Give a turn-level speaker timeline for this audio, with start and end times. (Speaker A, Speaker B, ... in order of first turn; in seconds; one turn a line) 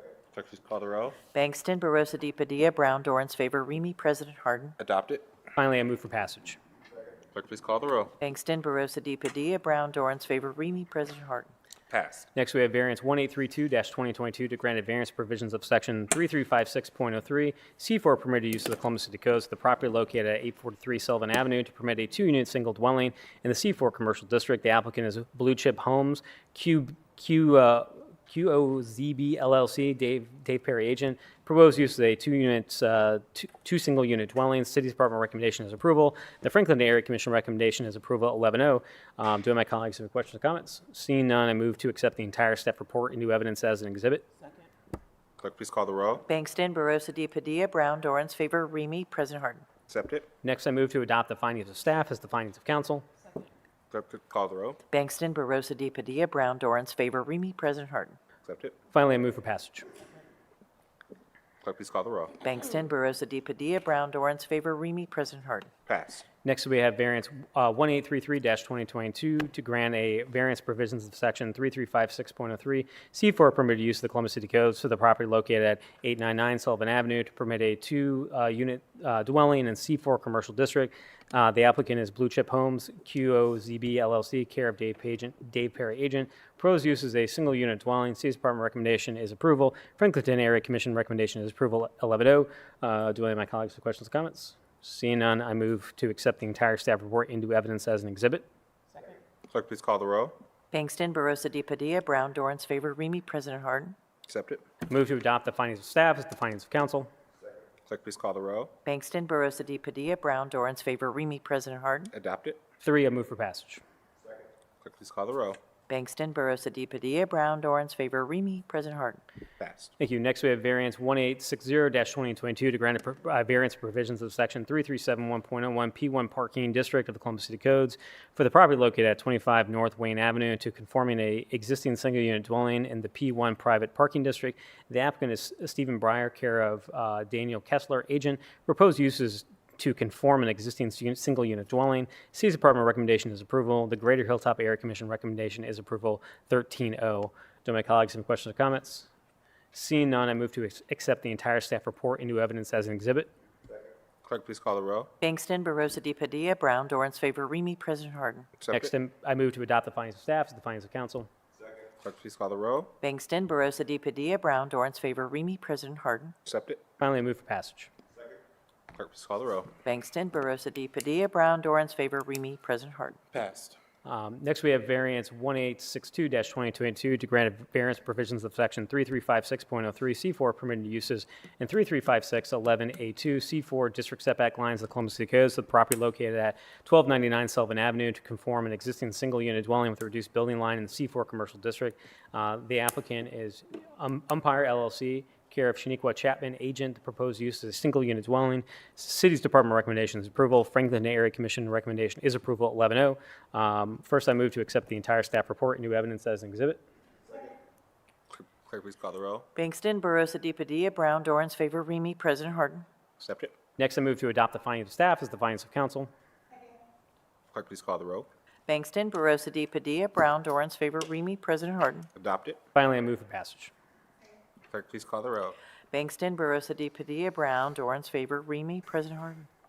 Speaker A: 0.3-1.2
Speaker B: 1.3-4.8
Speaker A: 4.8-5.3
Speaker C: 5.6-6.6
Speaker A: 7.3-8.2
Speaker B: 8.2-11.5
Speaker A: 11.9-12.3
Speaker C: 12.3-44.3
Speaker A: 45.4-46.3
Speaker B: 46.3-49.7
Speaker A: 49.9-50.3
Speaker C: 50.4-53.1
Speaker A: 53.9-54.8
Speaker B: 54.9-58.2
Speaker A: 58.4-58.8
Speaker C: 58.9-59.9
Speaker A: 61.6-62.4
Speaker B: 62.4-65.7
Speaker A: 65.9-66.2
Speaker C: 66.4-98.5
Speaker A: 99.5-100.4
Speaker B: 100.7-104.0
Speaker A: 104.3-104.6
Speaker C: 104.9-107.1
Speaker A: 107.9-108.7
Speaker B: 108.8-112.1
Speaker A: 112.1-112.6
Speaker C: 112.8-113.8
Speaker A: 114.8-115.6
Speaker B: 115.9-119.2
Speaker A: 119.6-119.9
Speaker C: 120.0-149.1
Speaker C: 149.7-153.3
Speaker A: 154.2-155.1
Speaker B: 155.2-158.5
Speaker A: 158.6-158.9
Speaker C: 158.7-161.3
Speaker A: 162.0-162.9
Speaker B: 163.0-166.3
Speaker A: 166.5-166.8
Speaker C: 167.0-167.9
Speaker A: 168.9-169.7
Speaker B: 169.8-173.2
Speaker A: 173.3-173.8
Speaker C: 174.1-206.8
Speaker A: 208.3-209.5
Speaker B: 209.6-212.8
Speaker A: 213.2-213.5
Speaker C: 213.8-216.1
Speaker A: 217.5-218.3
Speaker B: 218.7-222.1
Speaker A: 222.2-222.6
Speaker C: 222.8-223.7
Speaker A: 224.7-225.6
Speaker B: 225.9-229.5